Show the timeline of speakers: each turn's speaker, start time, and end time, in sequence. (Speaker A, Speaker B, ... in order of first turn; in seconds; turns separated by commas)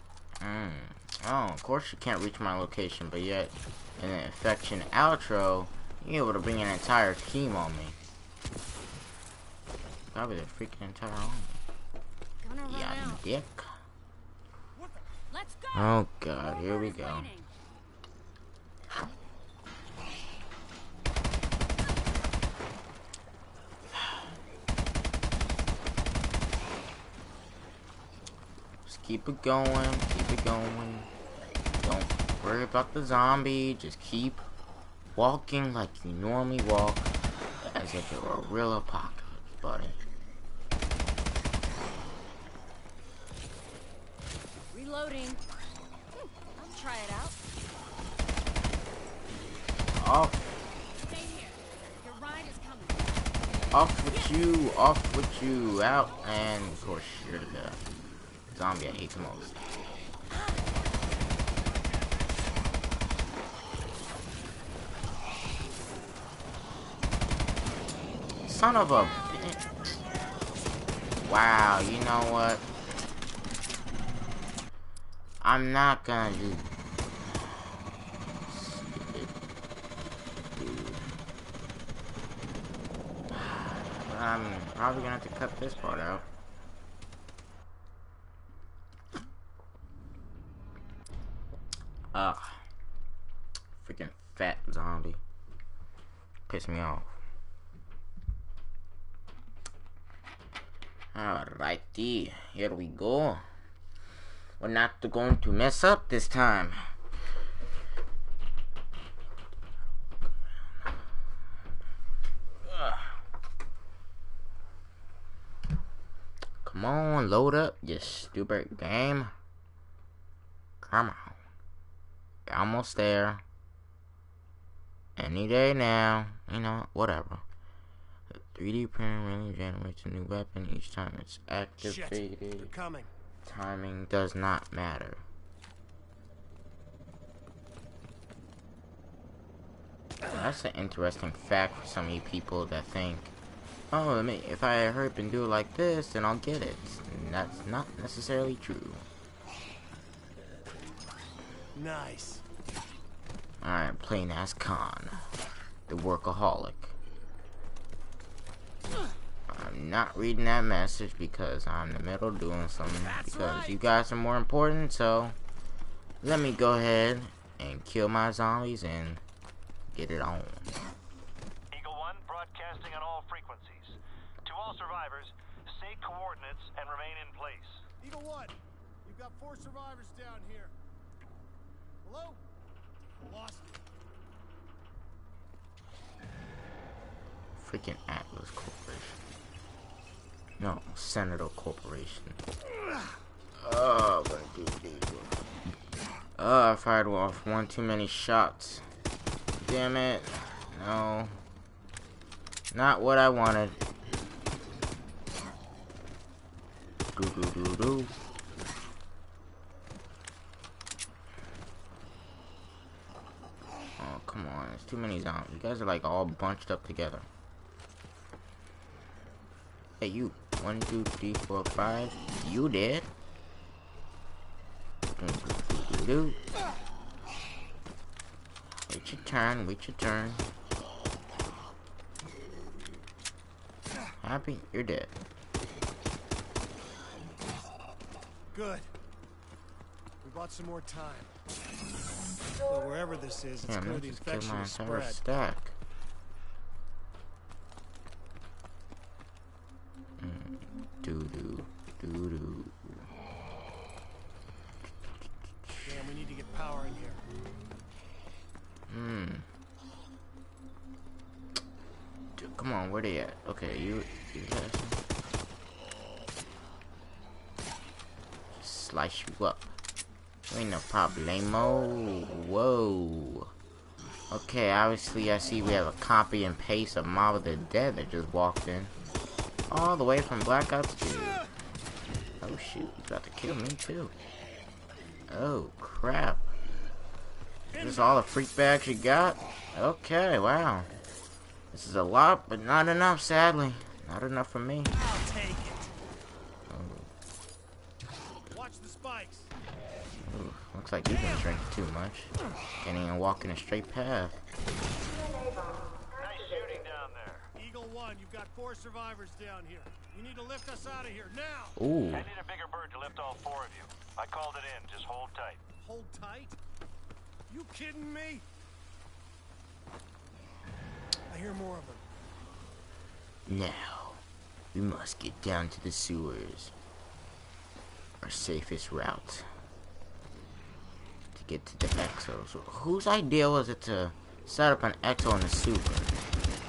Speaker A: 0.4-8.0, Speaker A: 10.1-11.6, Speaker B: 12.4-13.2, Speaker A: 12.7-13.7, Speaker C: 14.8-15.0, Speaker B: 15.3-17.5, Speaker A: 15.7-17.3, Speaker A: 28.9-31.1, Speaker A: 31.8-34.5, Speaker A: 35.2-40.0, Speaker B: 44.7-45.4, Speaker B: 46.1-47.4, Speaker A: 49.9-50.5, Speaker B: 51.0-53.2, Speaker A: 53.7-57.8, Speaker B: 54.1-54.4, Speaker A: 58.5-59.6, Speaker B: 60.3-60.6, Speaker A: 68.5-69.8, Speaker B: 69.0-69.5, Speaker A: 71.2-72.7, Speaker A: 75.4-76.7, Speaker A: 77.3-77.5, Speaker A: 78.5-79.3, Speaker A: 80.5-81.1, Speaker A: 83.3-86.2, Speaker A: 92.1-92.6, Speaker A: 93.8-95.2, Speaker A: 96.5-97.1, Speaker A: 101.1-103.4, Speaker A: 104.6-106.9, Speaker A: 112.7-113.1, Speaker A: 116.6-119.3, Speaker A: 120.8-121.4, Speaker A: 122.5-123.4, Speaker A: 125.2-127.4, Speaker A: 128.3-132.7, Speaker C: 131.8-133.1, Speaker A: 133.4-135.2, Speaker A: 140.2-143.3, Speaker A: 143.9-149.1, Speaker C: 151.8-152.4, Speaker A: 153.6-155.3, Speaker A: 155.9-156.9, Speaker A: 159.5-165.4, Speaker C: 163.0-163.8, Speaker A: 166.2-169.2, Speaker A: 169.9-170.7, Speaker D: 171.7-177.8, Speaker C: 178.0-180.7, Speaker C: 182.0-182.4, Speaker C: 183.0-183.9, Speaker A: 187.6-189.2, Speaker A: 190.6-192.4, Speaker A: 193.6-195.4, Speaker A: 196.4-198.8, Speaker A: 199.6-201.4, Speaker A: 202.7-203.8, Speaker A: 207.1-208.2, Speaker A: 214.0-217.3, Speaker A: 220.0-223.1, Speaker A: 225.2-226.4, Speaker A: 228.9-230.5, Speaker A: 234.2-235.1, Speaker C: 238.5-238.9, Speaker C: 240.2-241.4, Speaker C: 242.7-245.2, Speaker A: 243.6-245.8, Speaker A: 250.2-253.1, Speaker C: 255.8-257.2, Speaker A: 258.9-259.5, Speaker A: 262.4-265.0, Speaker A: 268.6-269.8, Speaker A: 270.5-273.5, Speaker A: 274.3-278.9, Speaker A: 279.7-281.4, Speaker A: 282.4-284.1, Speaker A: 285.3-286.5, Speaker C: 287.7-288.3, Speaker A: 287.8-290.9, Speaker A: 291.7-294.9, Speaker C: 295.0-295.9, Speaker A: 296.7-297.1, Speaker C: 298.5-299.5, Speaker A: 300.2-304.4, Speaker D: 306.1-307.5, Speaker C: 307.6-311.8, Speaker A: 311.8-312.3, Speaker D: 312.1-315.6, Speaker C: 315.8-316.6, Speaker C: 317.5-318.5, Speaker C: 321.3-322.0, Speaker A: 323.5-324.2, Speaker A: 324.7-326.7, Speaker A: 328.2-329.5, Speaker A: 331.3-336.1